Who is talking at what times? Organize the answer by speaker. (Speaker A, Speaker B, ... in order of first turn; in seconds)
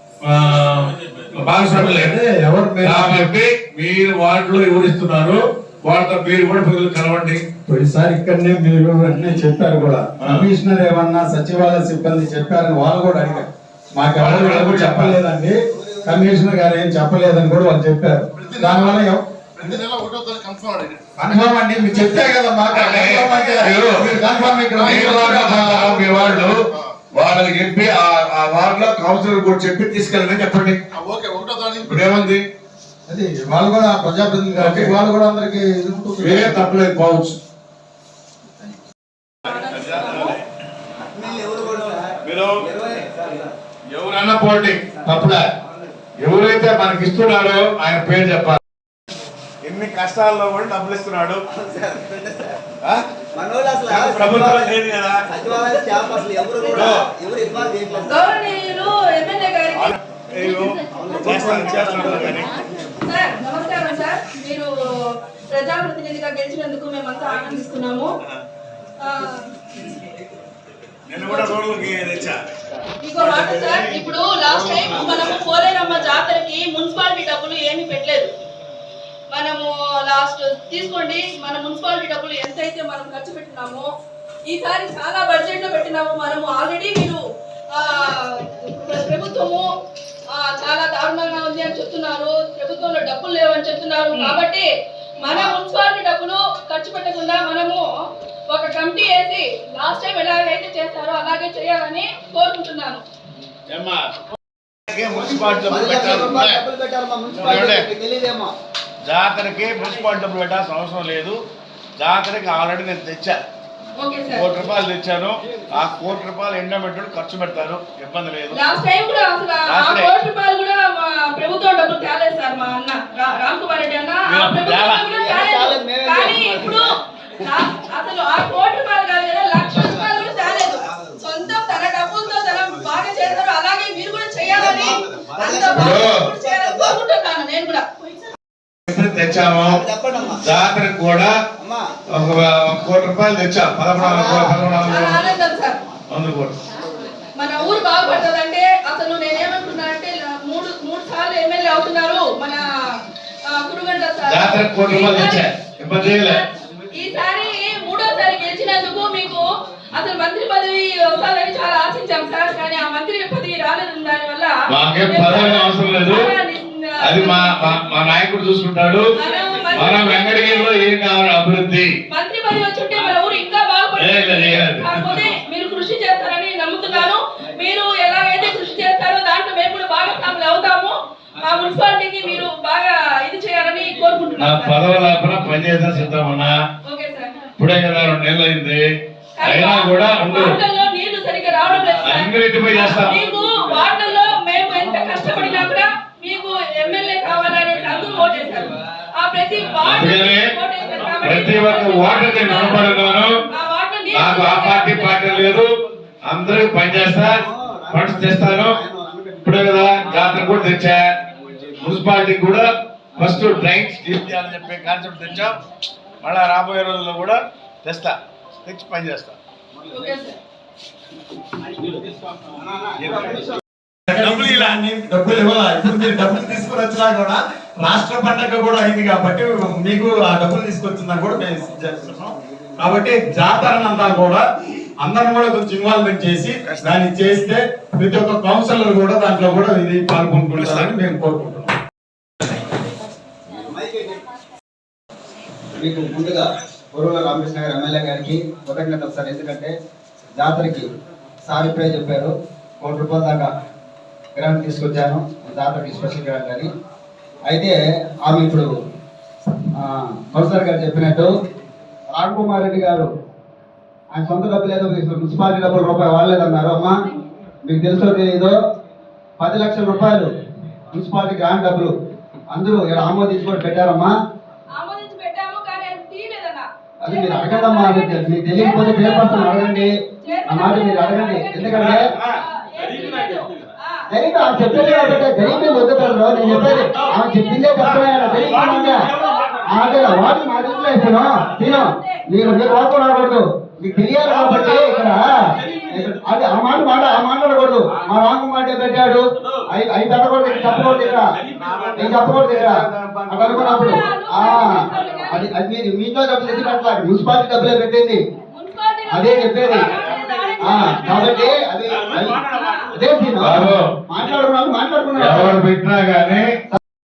Speaker A: 0.2-2.2, 2.8-7.4, 10.2-10.4, 14.2-15.2, 22.7-24.2, 24.7-30.8, 31.8-32.5, 34.6-34.9, 36.2-37.4, 39.5-40.4, 42.2-42.6, 43.9-45.4, 46.2-48.6, 49.6-51.4, 52.8-53.1, 53.9-55.3, 56.7-57.1, 59.7-62.6, 71.1-72.5, 73.1-75.4, 103.7-104.1, 104.9-106.6, 107.3-107.9, 109.0-111.3, 112.0-113.4, 114.3-118.6, 119.7-120.1, 124.3-125.1, 135.7-136.3, 138.9-141.3, 142.1-145.3, 146.1-146.6, 154.2-156.4, 164.7-166.3, 167.0-169.1, 169.7-171.9, 173.9-175.2, 184.4-186.5, 187.6-188.8, 189.4-190.6, 192.0-193.2, 199.8-200.5, 201.2-203.4, 204.1-205.7, 206.2-208.8, 209.4-211.2, 211.8-215.6, 216.2-219.3, 223.0-223.4, 224.2-224.8, 236.7-236.9, 240.5-240.9, 288.8-289.3, 301.5-303.6, 313.4-313.9, 315.1-316.6
Speaker B: 1.7-3.1, 7.6-19.8, 21.2-25.9, 33.1-36.8, 224.1-234.4, 235.0-241.7
Speaker C: 15.8-16.4, 41.0-43.5, 51.5-52.6, 53.3-54.7, 55.3-58.3, 60.9-62.4, 105.1-108.5, 125.0-126.9, 129.7-131.2, 134.4-137.0, 139.5-140.4, 141.6-141.9, 143.9-144.8, 147.6-148.2, 207.1-210.8, 222.6-223.5, 243.6-244.2, 245.8-249.7, 250.3-250.8, 251.4-253.5, 254.3-256.7, 257.5-258.8, 259.8-261.3, 262.1-263.1, 264.1-266.9, 267.6-268.5, 269.4-270.3, 270.9-271.9, 272.5-274.1, 277.0-282.1, 284.1-301.4, 301.9-308.2, 309.1-310.0, 310.6-312.4, 312.9-315.6
Speaker D: 18.3-19.0, 19.6-21.0, 23.2-23.7, 24.2-26.9, 30.9-32.1
Speaker E: 39.5-40.4, 58.1-59.9, 63.0-68.2, 69.0-69.4, 71.2-71.5, 73.0-78.3, 79.3-83.9, 84.5-87.2, 87.8-89.6, 90.4-94.7, 95.2-97.8, 98.5-103.0, 114.0-114.5, 118.5-138.3, 144.8-145.8, 147.3-152.6, 153.5-167.7, 169.2-170.8, 172.1-184.8, 186.8-187.4, 189.4-205.3, 219.9-220.4, 274.8-285.9, 286.6-292.2, 294.4-296.1, 303.5-305.4, 306.4-306.8, 308.5-311.6, 312.3-312.9